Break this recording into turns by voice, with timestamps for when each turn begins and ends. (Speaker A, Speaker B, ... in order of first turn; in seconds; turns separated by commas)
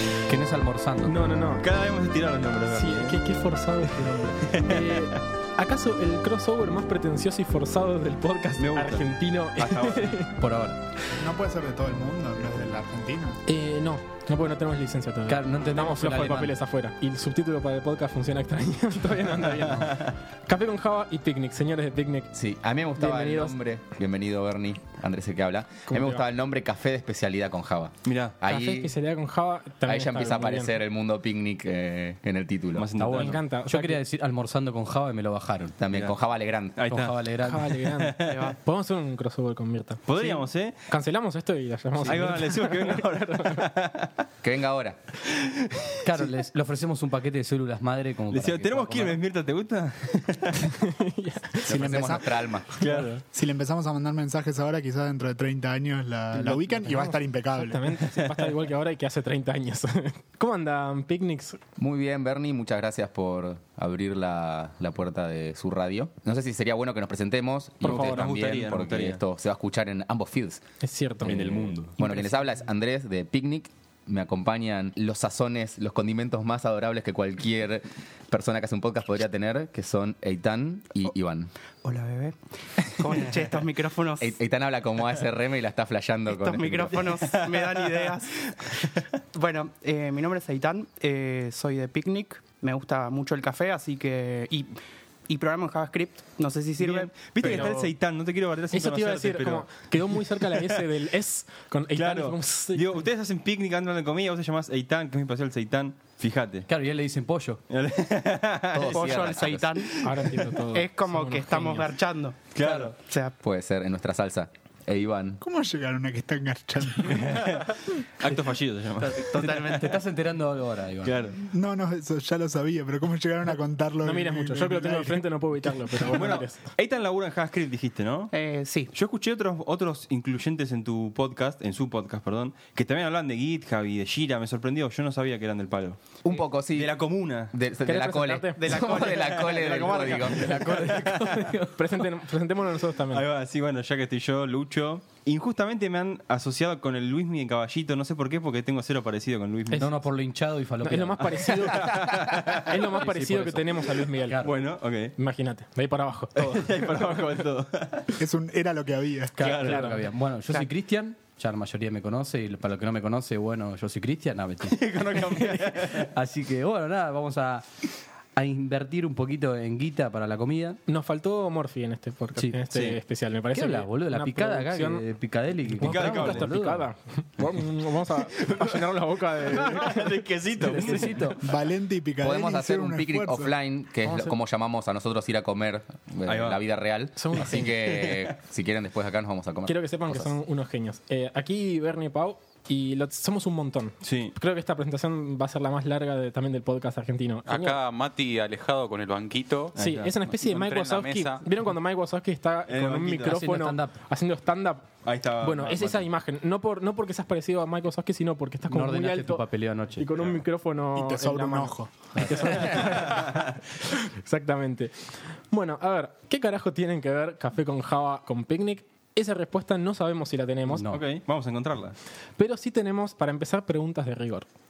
Speaker A: 0.3-1.3, Speaker B: 1.0-1.7, Speaker C: 1.6-3.2, Speaker B: 2.7-10.3, Speaker C: 4.4-5.2, Speaker C: 8.6-9.1, Speaker C: 9.6-10.3, Speaker A: 10.4-10.8, Speaker D: 11.1-13.4, Speaker B: 13.5-22.3, Speaker A: 15.3-16.6, Speaker C: 19.4-20.1, Speaker E: 22.3-28.9, Speaker B: 23.0-23.6, Speaker B: 25.9-26.3, Speaker C: 28.1-28.4, Speaker B: 28.4-30.8, Speaker E: 29.9-32.9, Speaker C: 32.8-33.4, Speaker A: 33.0-35.8, Speaker B: 33.1-34.0, Speaker E: 35.8-36.8, Speaker C: 36.8-37.2, Speaker A: 36.9-37.7, Speaker B: 37.4-43.7, Speaker C: 37.8-38.5, Speaker F: 38.2-38.6, Speaker C: 40.1-40.8, Speaker C: 42.0-44.2, Speaker E: 44.4-45.0, Speaker C: 45.3-46.3, Speaker A: 46.0-49.2, Speaker C: 48.3-50.7, Speaker B: 50.8-51.7, Speaker D: 51.7-52.5, Speaker E: 51.7-52.7, Speaker C: 52.8-53.2, Speaker B: 52.8-53.2, Speaker D: 53.3-57.8, Speaker B: 56.3-61.6, Speaker C: 58.1-58.5, Speaker E: 61.8-70.6, Speaker B: 67.8-68.3, Speaker C: 67.8-69.2, Speaker B: 70.8-71.7, Speaker E: 71.2-81.5, Speaker C: 71.2-72.0, Speaker F: 72.0-72.5, Speaker F: 81.8-82.4, Speaker F: 83.0-84.3, Speaker E: 84.2-87.1, Speaker F: 86.3-94.8, Speaker C: 87.0-89.0, Speaker F: 95.3-97.8, Speaker C: 96.8-100.8, Speaker B: 97.4-97.9, Speaker B: 98.7-102.9, Speaker C: 102.0-106.7, Speaker A: 106.7-107.6, Speaker C: 107.7-109.1, Speaker E: 108.7-109.8, Speaker F: 108.9-110.1, Speaker C: 110.0-110.5, Speaker B: 110.0-111.9, Speaker F: 110.7-113.3, Speaker C: 112.5-113.0, Speaker E: 113.4-115.4, Speaker D: 115.4-117.2, Speaker C: 117.0-119.4, Speaker F: 119.1-120.0, Speaker A: 119.4-121.3, Speaker C: 121.0-121.4, Speaker D: 121.4-126.4, Speaker B: 124.0-126.6, Speaker C: 126.0-128.3, Speaker F: 128.3-128.9, Speaker C: 128.9-137.5, Speaker E: 136.2-136.9, Speaker E: 137.5-140.5, Speaker B: 137.8-139.1, Speaker F: 138.6-140.2, Speaker C: 138.7-141.5, Speaker A: 140.3-141.8, Speaker B: 140.7-143.3, Speaker C: 143.1-149.9, Speaker A: 149.7-151.5, Speaker B: 150.8-154.4, Speaker C: 151.2-152.8, Speaker A: 152.8-154.6, Speaker C: 154.4-155.2, Speaker B: 155.2-156.9, Speaker C: 156.4-158.2, Speaker D: 158.2-159.4, Speaker A: 159.4-167.7, Speaker C: 159.4-159.9, Speaker B: 159.4-160.0, Speaker C: 164.7-166.1, Speaker A: 168.3-170.8, Speaker B: 170.9-175.0, Speaker A: 172.3-173.0, Speaker A: 173.5-176.9, Speaker B: 175.8-181.4, Speaker C: 175.8-176.5, Speaker C: 178.3-181.3, Speaker A: 180.7-181.4, Speaker D: 181.4-183.5, Speaker E: 182.2-190.3, Speaker B: 184.1-184.3, Speaker C: 186.3-186.6, Speaker B: 187.2-187.8, Speaker C: 187.8-188.3, Speaker B: 189.7-197.8, Speaker C: 194.0-194.3, Speaker G: 197.5-201.4, Speaker C: 199.8-200.1, Speaker B: 199.8-204.9, Speaker C: 202.7-203.4, Speaker A: 203.3-203.9, Speaker C: 205.0-206.1, Speaker B: 205.4-209.4, Speaker A: 208.7-210.2, Speaker B: 210.0-215.0, Speaker D: 210.9-212.0, Speaker A: 212.2-212.8, Speaker C: 212.9-213.3, Speaker B: 215.5-220.9, Speaker A: 220.7-221.0, Speaker C: 220.9-222.0, Speaker B: 222.4-224.5